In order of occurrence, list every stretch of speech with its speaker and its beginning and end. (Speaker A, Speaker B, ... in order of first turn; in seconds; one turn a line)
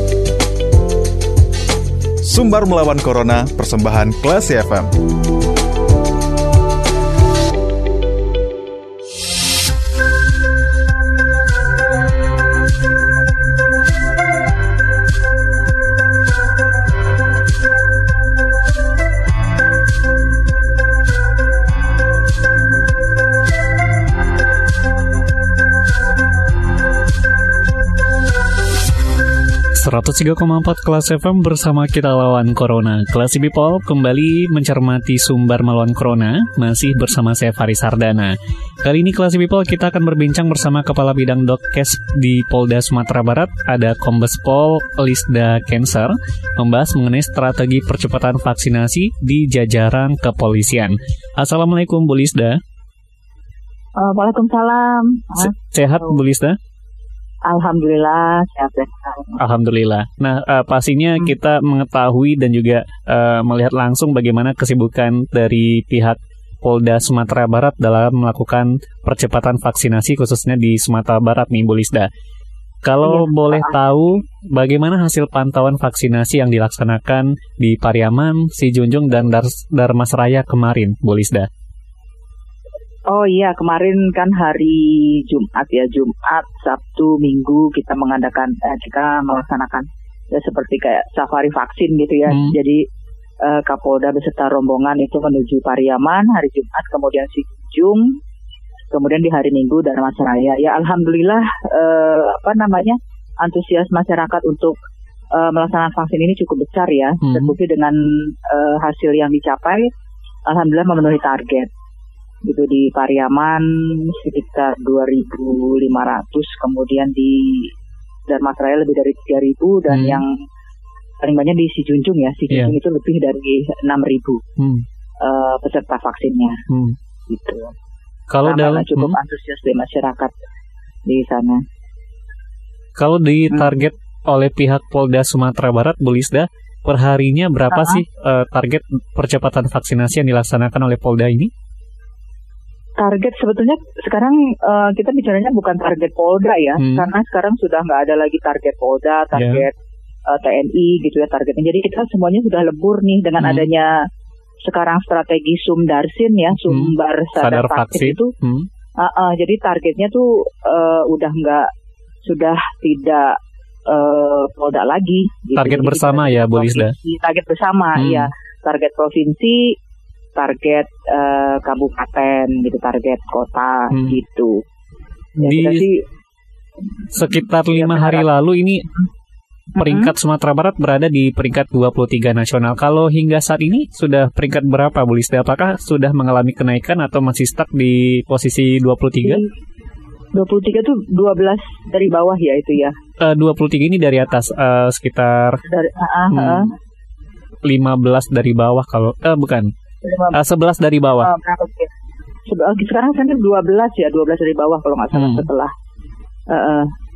Speaker A: 2.3-4.9
Speaker B: 29.8-52.6
Speaker C: 54.0-56.2
Speaker B: 55.4-56.6
Speaker C: 57.5-59.4
Speaker B: 59.4-72.1
Speaker B: 72.8-81.5
Speaker C: 73.0-73.8
Speaker C: 83.1-92.8
Speaker B: 92.3-92.5
Speaker C: 93.4-98.1
Speaker C: 98.9-104.8
Speaker C: 105.3-109.8
Speaker B: 107.2-107.5
Speaker C: 110.5-111.7
Speaker C: 112.5-117.7
Speaker C: 118.3-120.3
Speaker B: 119.9-120.2
Speaker C: 121.2-124.4
Speaker B: 124.6-124.8
Speaker C: 125.2-126.6
Speaker B: 126.7-127.0
Speaker C: 127.3-127.7
Speaker B: 128.3-129.2
Speaker C: 128.4-130.3
Speaker C: 131.1-131.6
Speaker B: 133.0-141.5
Speaker C: 133.5-133.8
Speaker C: 137.7-138.0
Speaker C: 143.0-149.7
Speaker B: 146.8-147.1
Speaker B: 149.3-149.6
Speaker C: 150.3-153.9
Speaker B: 153.4-153.7
Speaker C: 154.6-158.3
Speaker B: 156.6-158.7
Speaker C: 159.0-161.7
Speaker C: 162.2-163.3
Speaker C: 163.9-169.7
Speaker B: 165.6-166.9
Speaker B: 168.0-168.3
Speaker C: 170.3-174.6
Speaker B: 173.9-174.2
Speaker C: 175.4-176.0
Speaker B: 175.4-175.9
Speaker B: 177.1-178.9
Speaker C: 177.6-178.3
Speaker C: 179.7-180.1
Speaker B: 179.8-189.4
Speaker C: 189.2-189.5
Speaker C: 190.3-192.9
Speaker B: 193.2-195.6
Speaker C: 195.6-196.7
Speaker B: 196.3-196.7
Speaker B: 197.6-199.7
Speaker C: 200.0-200.4
Speaker B: 200.3-201.3
Speaker C: 201.2-201.9
Speaker C: 202.5-205.7
Speaker B: 205.1-205.5
Speaker C: 206.5-206.9